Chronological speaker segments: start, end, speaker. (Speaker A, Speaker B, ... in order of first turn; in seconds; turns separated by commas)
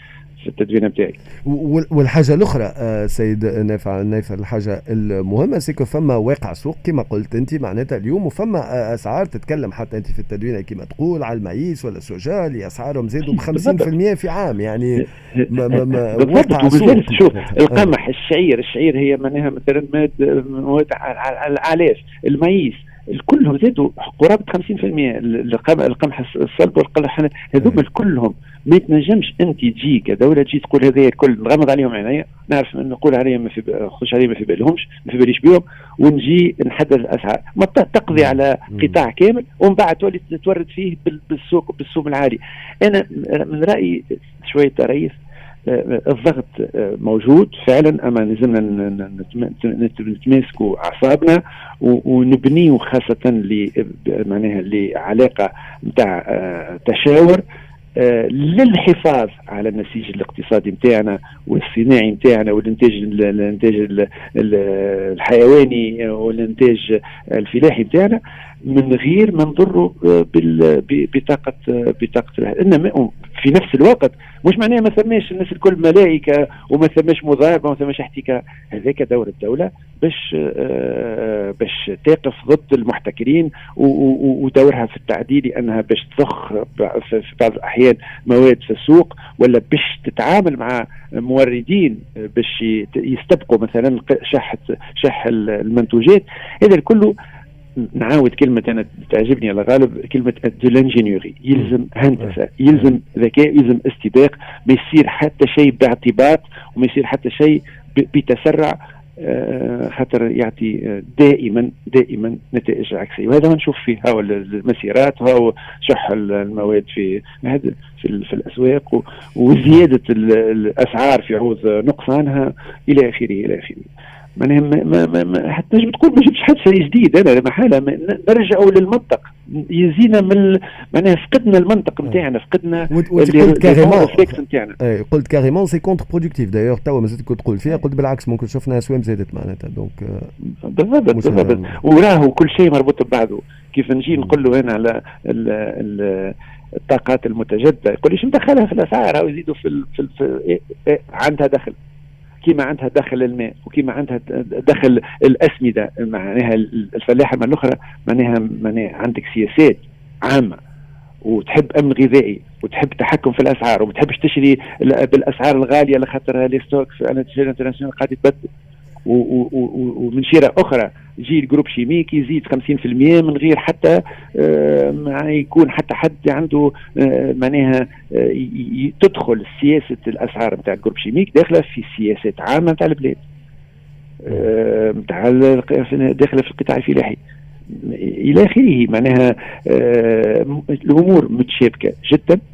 Speaker A: 0.4-1.2, Speaker B: 1.4-17.9, Speaker A: 13.2-13.9, Speaker A: 15.3-57.4, Speaker B: 38.1-39.0, Speaker A: 58.0-97.1, Speaker A: 98.0-134.8, Speaker B: 132.9-140.3, Speaker A: 140.6-146.3, Speaker B: 141.1-141.7, Speaker A: 146.9-151.8, Speaker A: 152.4-160.6, Speaker A: 161.2-168.5, Speaker A: 169.1-183.2, Speaker A: 184.2-187.2, Speaker A: 187.7-192.4